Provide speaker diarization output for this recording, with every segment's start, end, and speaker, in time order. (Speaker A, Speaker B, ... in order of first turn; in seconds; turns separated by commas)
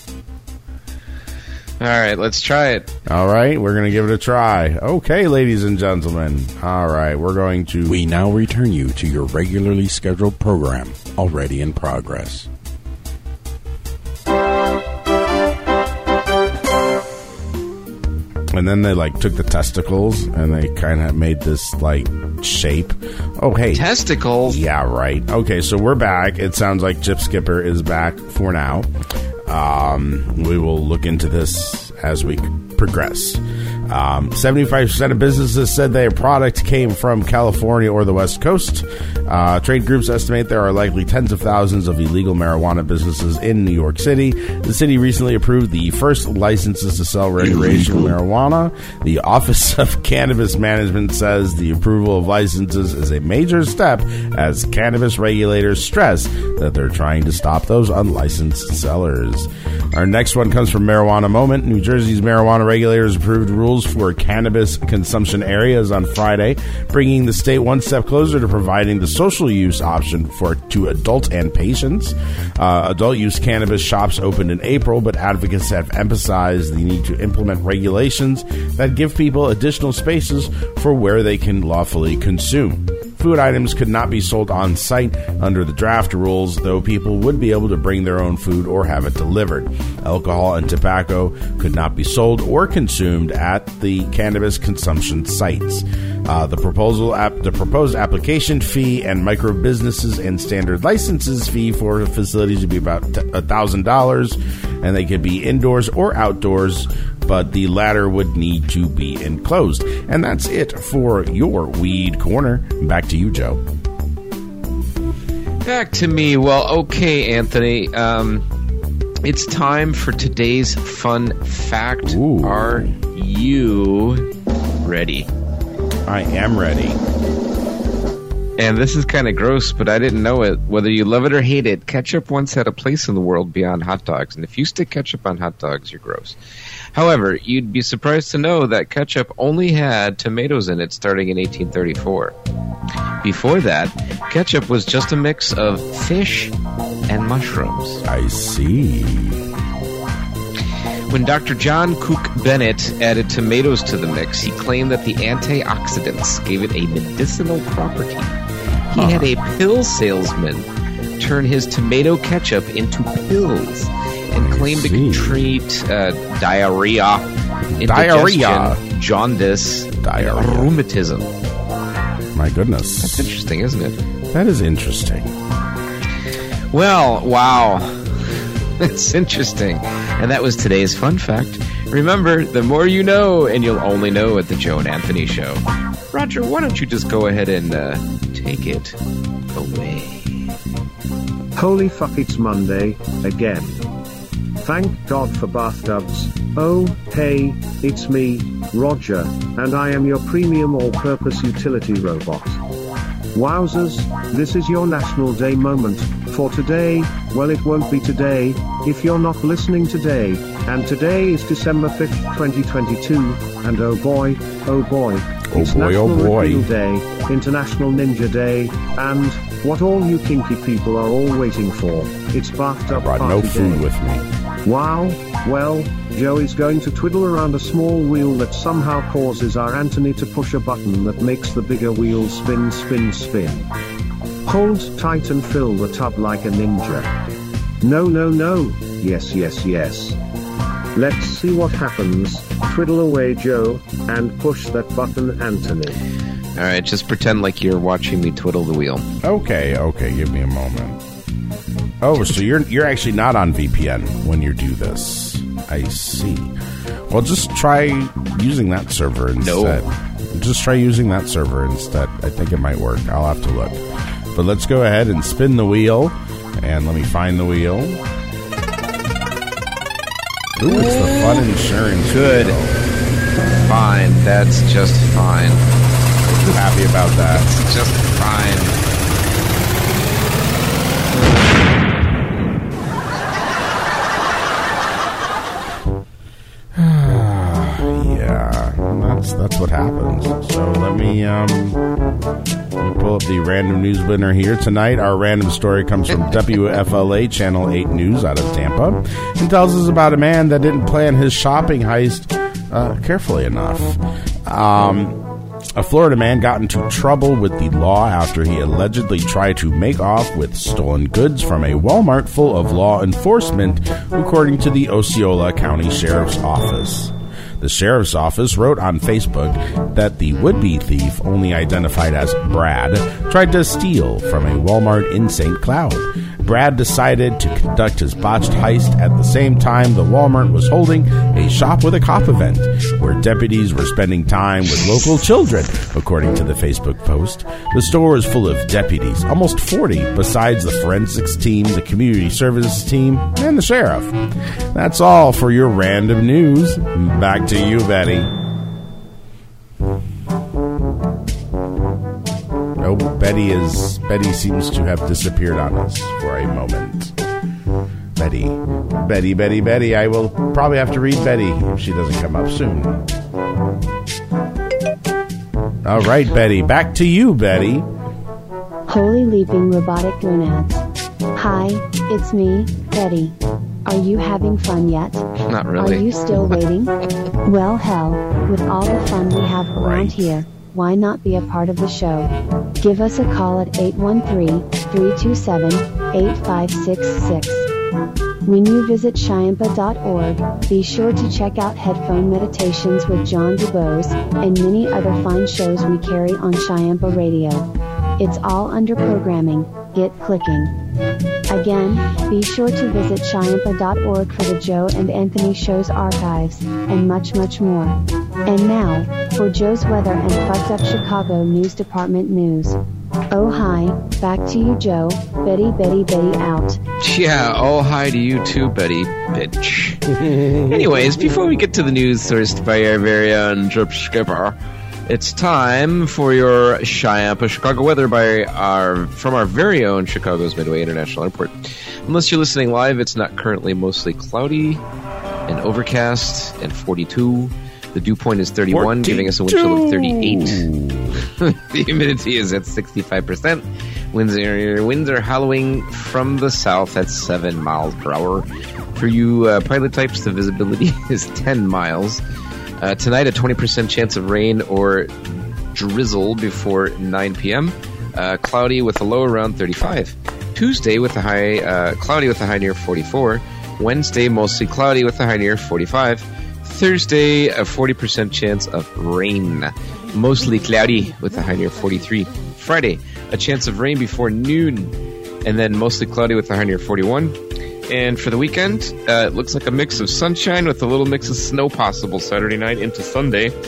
Speaker A: 1.8-2.9, Speaker B: 3.1-8.0, Speaker C: 7.9-12.5, Speaker B: 18.5-23.9, Speaker A: 23.7-24.6, Speaker B: 24.4-28.9, Speaker B: 29.5-113.6, Speaker A: 47.4-48.1, Speaker A: 115.7-118.4, Speaker A: 119.2-124.3, Speaker B: 122.1-123.0, Speaker A: 124.8-125.3, Speaker B: 126.1-127.0, Speaker A: 128.6-136.4, Speaker A: 136.9-142.3, Speaker A: 143.2-146.5, Speaker A: 147.1-148.0, Speaker B: 148.1-149.5, Speaker A: 151.1-158.4, Speaker B: 158.7-159.3, Speaker A: 158.9-160.7, Speaker A: 161.2-167.3, Speaker B: 164.3-165.6, Speaker B: 167.7-168.8, Speaker A: 167.8-171.3, Speaker B: 170.0-170.7, Speaker B: 172.3-173.3, Speaker A: 173.0-174.0, Speaker B: 174.3-175.3, Speaker A: 176.7-178.2, Speaker A: 178.8-189.0, Speaker A: 189.5-190.5, Speaker D: 191.6-193.8, Speaker D: 194.6-202.6, Speaker D: 203.3-223.8, Speaker B: 215.5-216.7, Speaker B: 222.9-224.2, Speaker D: 224.6-233.7, Speaker D: 234.5-237.1, Speaker D: 237.8-240.2, Speaker D: 240.9-246.0, Speaker A: 246.6-249.1, Speaker B: 249.2-251.0, Speaker B: 252.0-256.5, Speaker B: 257.1-263.8, Speaker A: 259.4-259.8, Speaker B: 264.3-268.0, Speaker B: 270.6-272.8, Speaker A: 270.7-271.4, Speaker A: 272.1-272.6, Speaker A: 273.6-275.6, Speaker B: 276.4-277.6, Speaker A: 277.4-278.8, Speaker B: 286.8-291.8, Speaker B: 292.8-305.2, Speaker B: 305.8-344.2, Speaker B: 344.7-348.3, Speaker B: 352.8-357.1, Speaker B: 358.2-363.0, Speaker B: 365.8-367.9, Speaker E: 368.9-370.8, Speaker E: 371.4-373.4, Speaker E: 373.9-375.2, Speaker A: 375.5-376.5, Speaker E: 375.8-376.9, Speaker E: 377.4-387.7, Speaker B: 379.8-380.4, Speaker E: 388.5-400.7, Speaker E: 401.5-412.8, Speaker E: 413.3-416.8, Speaker A: 417.0-420.1, Speaker B: 420.1-421.2, Speaker A: 420.6-434.8, Speaker A: 435.5-440.6, Speaker B: 438.7-441.3, Speaker A: 441.4-452.2, Speaker A: 452.8-455.1, Speaker A: 455.7-477.4, Speaker A: 477.9-483.5